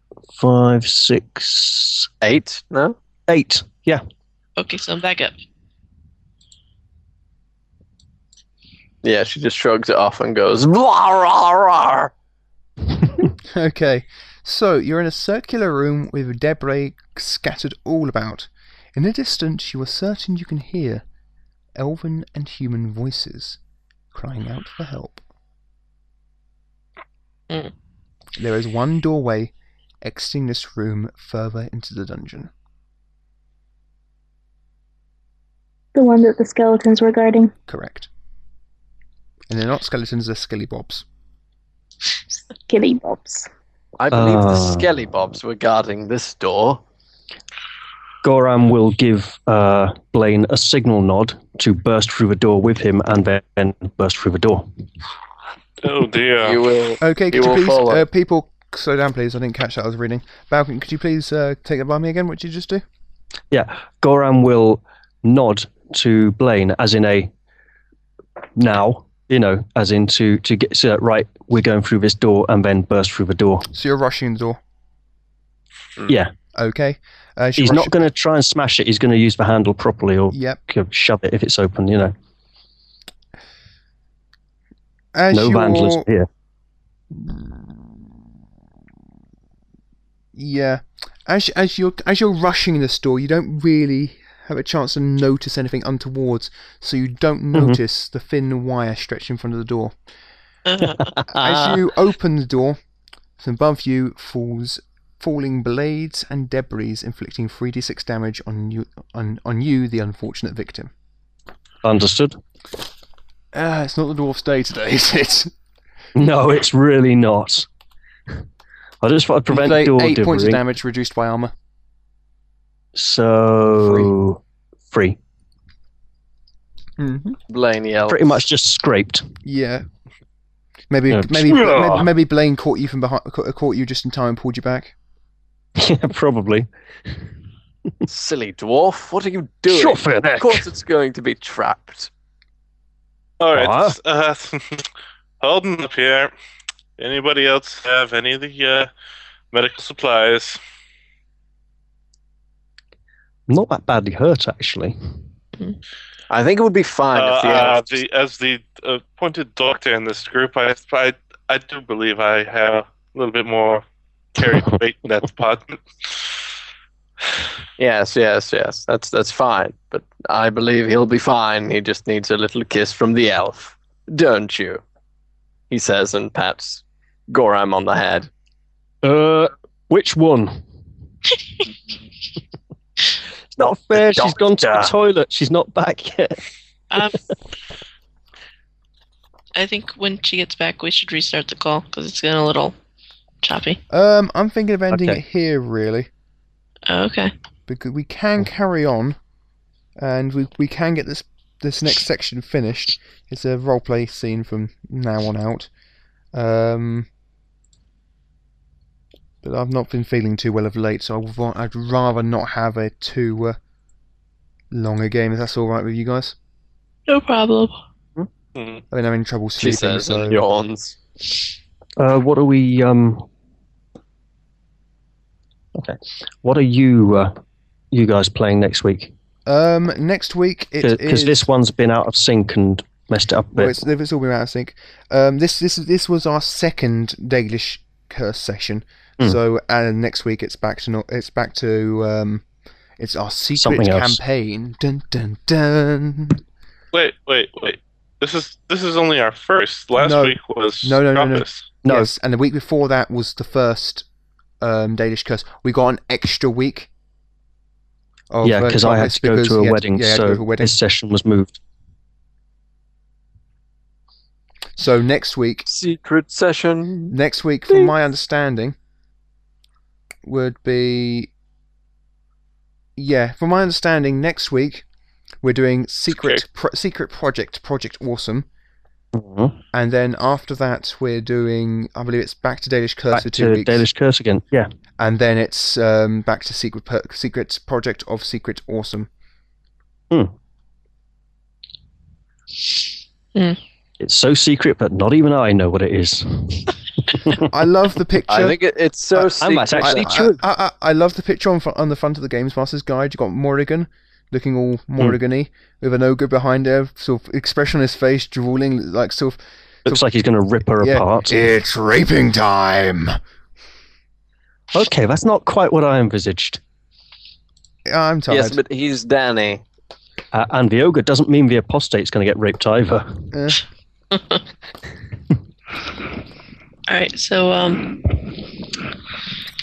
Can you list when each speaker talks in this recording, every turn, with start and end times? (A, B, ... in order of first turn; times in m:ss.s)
0:00.4-0:02.1 A
0:02.2-0:03.0 B
0:03.3-0:04.0 A
0:04.6-0:05.3 C
0:09.0-0:12.1 B
0:13.4-0:21.0 D
0:21.8-0:23.6 D
0:24.1-0:25.2 D
0:28.4-0:29.5 D
0:30.0-0:32.5 D
0:35.9-0:37.5 E
0:37.7-0:38.1 D
0:39.5-0:41.0 D
0:42.7-0:43.5 E
0:44.0-0:46.8 B
0:44.1-0:44.9 A
0:48.2-0:54.7 A
0:55.8-0:56.7 F
0:56.4-0:58.0 B
0:57.0-1:02.8 D
1:03.5-1:07.3 A
1:08.6-1:13.7 A
1:13.7-1:14.6 D
1:16.1-1:16.3 A
1:16.6-1:17.9 D
1:17.6-1:22.1 A
1:20.3-1:20.6 D
1:25.1-1:26.0 D
1:25.3-1:26.3 A
1:27.1-1:28.0 D
1:30.4-1:39.9 D
1:37.5-1:37.8 A
1:40.6-1:41.1 C
1:40.8-1:41.8 A
1:41.4-1:42.8 D
1:43.4-1:50.9 D
1:51.8-1:52.4 A
1:53.5-1:55.5 D
1:56.2-1:57.7 A
1:59.0-2:00.6 A
1:59.5-2:01.5 D
2:02.9-2:05.2 A
2:03.7-2:04.1 D
2:07.0-2:07.4 D
2:07.5-2:08.4 B
2:08.1-2:09.3 A
2:09.4-2:09.8 D
2:10.9-2:14.9 D
2:11.1-2:12.1 A
2:15.8-2:16.7 A
2:18.1-2:22.1 B
2:19.7-2:20.7 A
2:23.4-2:24.9 F
2:23.5-2:24.0 A
2:25.4-2:26.3 F
2:27.0-2:28.9 F
2:29.5-2:30.6 F
2:33.5-2:35.0 A
2:36.3-2:38.0 B
2:37.1-2:46.3 F
2:47.8-2:54.8 B
2:55.7-2:58.3 B
2:59.0-3:00.6 A
3:03.5-3:06.4 A
3:04.0-3:04.9 B
3:06.9-3:07.2 C
3:09.6-3:12.7 C
3:13.4-3:13.8 C
3:13.9-3:16.1 D
3:14.9-3:15.2 A
3:16.9-3:17.3 C
3:17.7-3:19.2 D
3:20.0-3:25.7 D
3:26.3-3:27.1 D
3:29.4-3:33.6 D
3:34.7-3:36.4 D
3:37.1-3:37.8 C
3:38.6-3:38.8 F
3:38.9-3:40.4 D
3:39.6-3:40.9 B
3:42.0-3:43.3 A
3:45.7-3:47.4 A
3:47.9-3:49.1 A
3:49.4-3:51.5 D
3:50.8-3:53.7 A
3:53.5-4:02.4 D
4:03.0-4:06.4 D
4:03.6-4:04.2 A
4:06.9-4:11.7 F
4:10.0-4:14.1 D
4:11.8-4:12.1 A
4:14.6-4:16.9 D
4:18.3-4:20.8 D
4:18.4-4:21.6 A
4:24.8-4:25.6 D
4:25.6-4:27.2 B
4:27.1-4:28.7 D
4:27.7-4:27.9 B
4:30.2-4:31.3 D
4:33.0-4:34.8 D
4:35.4-4:38.4 D
4:36.1-4:36.4 F
4:39.1-4:39.6 A
4:39.7-4:43.9 D
4:43.1-4:44.7 A
4:45.0-4:49.1 D
4:54.0-4:57.5 A
4:57.3-4:58.6 D
4:58.3-5:00.3 B
4:59.2-5:10.0 D
4:59.4-5:00.4 A
5:09.9-5:11.4 A
5:10.8-5:13.2 D
5:14.7-5:16.6 A
5:17.9-5:18.6 D
5:18.3-5:19.6 B
5:20.3-5:23.3 A
5:23.3-5:23.6 D
5:26.9-5:28.0 C